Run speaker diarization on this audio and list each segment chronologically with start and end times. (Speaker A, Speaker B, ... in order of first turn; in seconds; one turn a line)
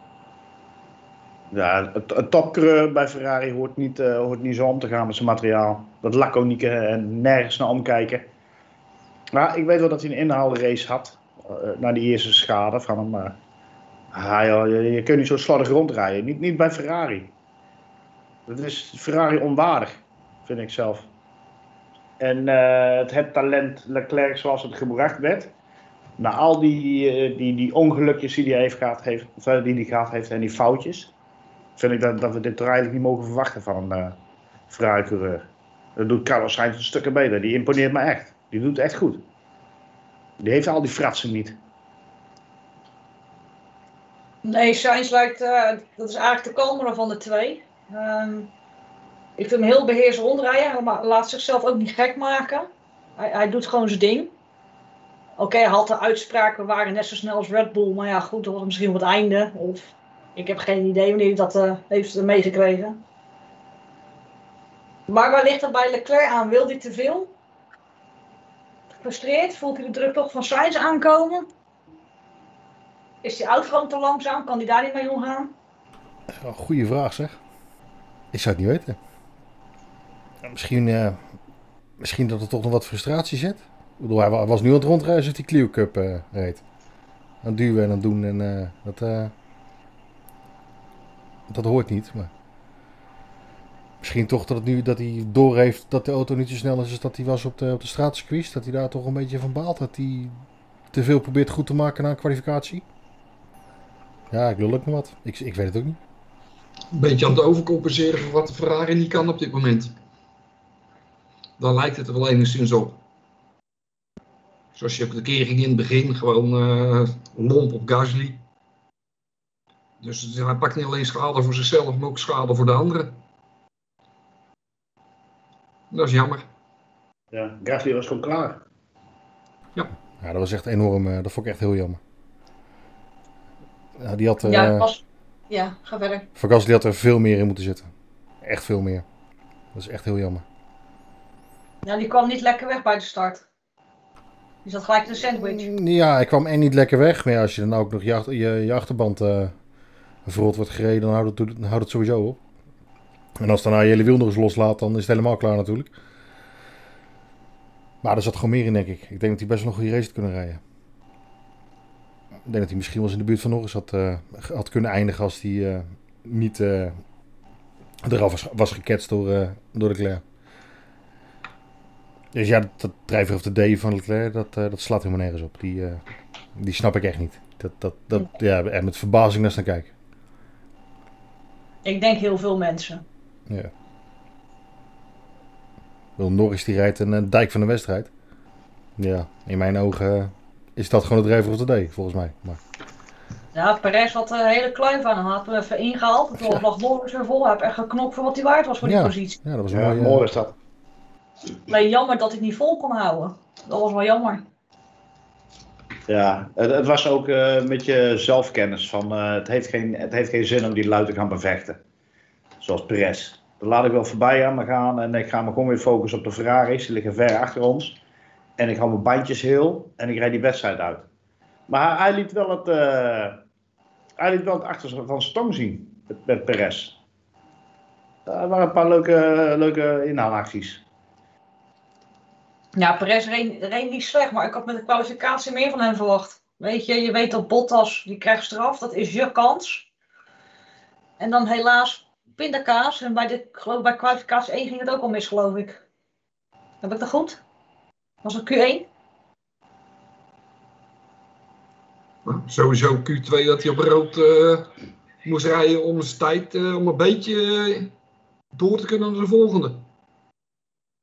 Speaker A: 1.5-8.3
Speaker A: 9.3-13.4
Speaker A: 14.1-17.3
Speaker A: 18.5-21.1
Speaker A: 22.2-25.5
Speaker A: 26.2-31.1
Speaker A: 31.8-34.2
Speaker A: 34.7-39.2
Speaker A: 40.4-41.6
Speaker B: 44.4-48.5
Speaker B: 49.4-54.3
Speaker B: 55.4-63.0
Speaker B: 65.1-67.3
Speaker B: 69.0-71.5
Speaker B: 73.2-75.5
Speaker C: 76.3-77.4
Speaker C: 78.3-79.0
Speaker C: 80.5-81.2
Speaker C: 82.0-86.6
Speaker C: 87.4-89.3
Speaker C: 91.5-92.3
Speaker C: 94.0-100.4
Speaker C: 100.9-102.8
Speaker C: 104.3-106.0
Speaker D: 106.9-109.9
Speaker D: 111.6-113.0
Speaker D: 114.7-118.4
Speaker D: 120.0-123.2
Speaker D: 125.9-126.5
Speaker A: 127.3-128.6
Speaker C: 130.2-132.0
Speaker C: 134.0-134.9
Speaker B: 134.4-136.3
Speaker C: 136.4-137.9
Speaker C: 138.4-139.1
Speaker C: 139.7-140.4
Speaker B: 141.8-143.4
Speaker B: 144.7-145.7
Speaker C: 145.4-149.5
Speaker C: 150.2-152.4
Speaker C: 153.4-155.9
Speaker C: 158.0-160.6
Speaker C: 162.5-167.0
Speaker C: 168.0-170.2
Speaker C: 172.3-176.0
Speaker C: 176.6-179.9
Speaker B: 181.8-183.0
Speaker C: 186.2-188.1
Speaker C: 189.0-192.6
Speaker B: 193.5-199.4
Speaker C: 196.4-196.6
Speaker C: 198.8-200.3
Speaker A: 199.7-200.5
Speaker B: 201.7-204.4
Speaker A: 206.1-211.8
Speaker A: 212.6-218.0
Speaker A: 218.6-221.1
Speaker A: 221.7-223.4
Speaker A: 224.2-227.0
Speaker A: 228.3-230.8
Speaker B: 232.8-239.9
Speaker B: 241.2-245.8
Speaker B: 246.8-247.4
Speaker B: 248.2-248.9
Speaker D: 252.2-254.7
Speaker D: 255.2-257.9
Speaker D: 258.5-259.8